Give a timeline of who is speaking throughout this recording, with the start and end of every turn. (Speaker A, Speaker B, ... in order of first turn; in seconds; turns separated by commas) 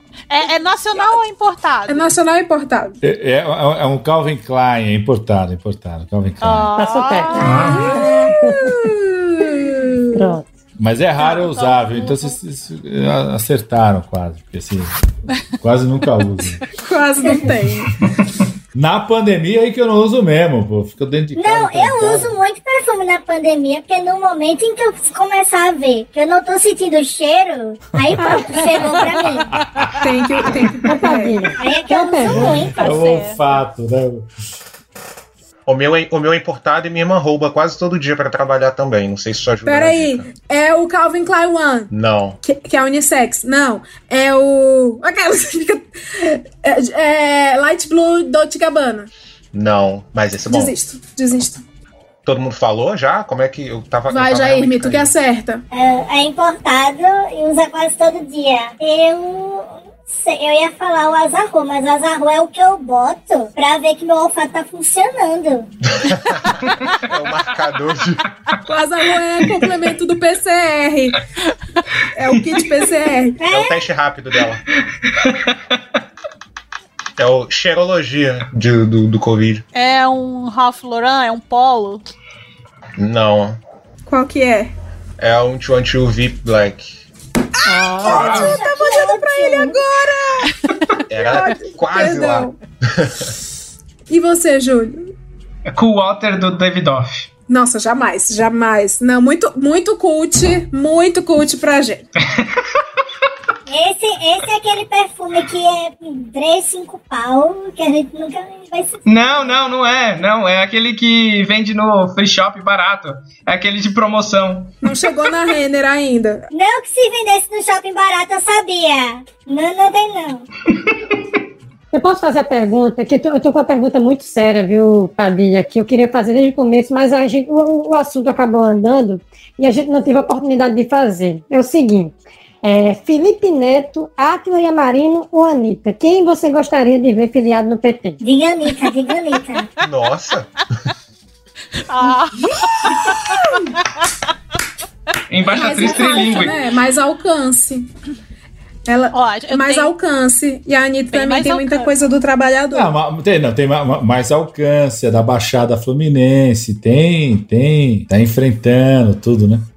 Speaker A: 0.3-2.1, Speaker B: 0.9-1.2, Speaker B: 1.9-3.0, Speaker C: 3.0-6.7, Speaker A: 6.4-8.1, Speaker D: 6.8-8.7, Speaker E: 7.4-7.8, Speaker B: 7.5-10.1, Speaker D: 10.1-10.4, Speaker C: 10.8-15.0, Speaker A: 11.2-12.3, Speaker C: 15.6-16.6, Speaker B: 16.8-17.9, Speaker C: 18.7-22.4, Speaker F: 21.4-29.5, Speaker D: 28.2-28.9, Speaker C: 29.5-30.1, Speaker B: 30.0-31.4, Speaker D: 30.9-32.7, Speaker F: 31.6-33.1, Speaker C: 32.3-34.3, Speaker A: 32.5-33.4, Speaker G: 35.7-40.3, Speaker B: 39.7-41.9, Speaker G: 41.9-42.4, Speaker B: 42.4-49.1, Speaker G: 49.5-50.7, Speaker B: 50.5-51.6, Speaker G: 52.2-55.1, Speaker B: 54.1-55.6, Speaker F: 55.7-65.7, Speaker G: 65.9-68.2, Speaker B: 68.7-71.2, Speaker B: 72.1-73.4, Speaker F: 73.4-73.9, Speaker G: 73.5-74.6, Speaker E: 75.1-75.5, Speaker G: 77.2-79.6, Speaker A: 79.8-82.0, Speaker G: 83.0-83.6, Speaker B: 84.1-84.7, Speaker G: 85.2-87.0, Speaker B: 87.7-90.5, Speaker A: 87.8-88.5, Speaker F: 88.0-89.8, Speaker G: 91.1-93.3, Speaker B: 91.3-92.5, Speaker B: 94.1-95.1, Speaker E: 95.7-97.3, Speaker B: 97.5-102.1, Speaker F: 103.7-109.5, Speaker E: 109.1-114.8, Speaker B: 114.8-116.5, Speaker F: 116.5-120.5, Speaker D: 121.9-138.2, Speaker F: 138.2-139.7, Speaker G: 139.8-140.5, Speaker A: 141.9-143.4, Speaker B: 142.8-143.7, Speaker E: 145.3-146.6, Speaker B: 145.5-147.9, Speaker A: 145.8-146.5, Speaker B: 148.9-152.9, Speaker A: 149.1-149.9, Speaker A: 151.1-151.9, Speaker C: 152.7-159.7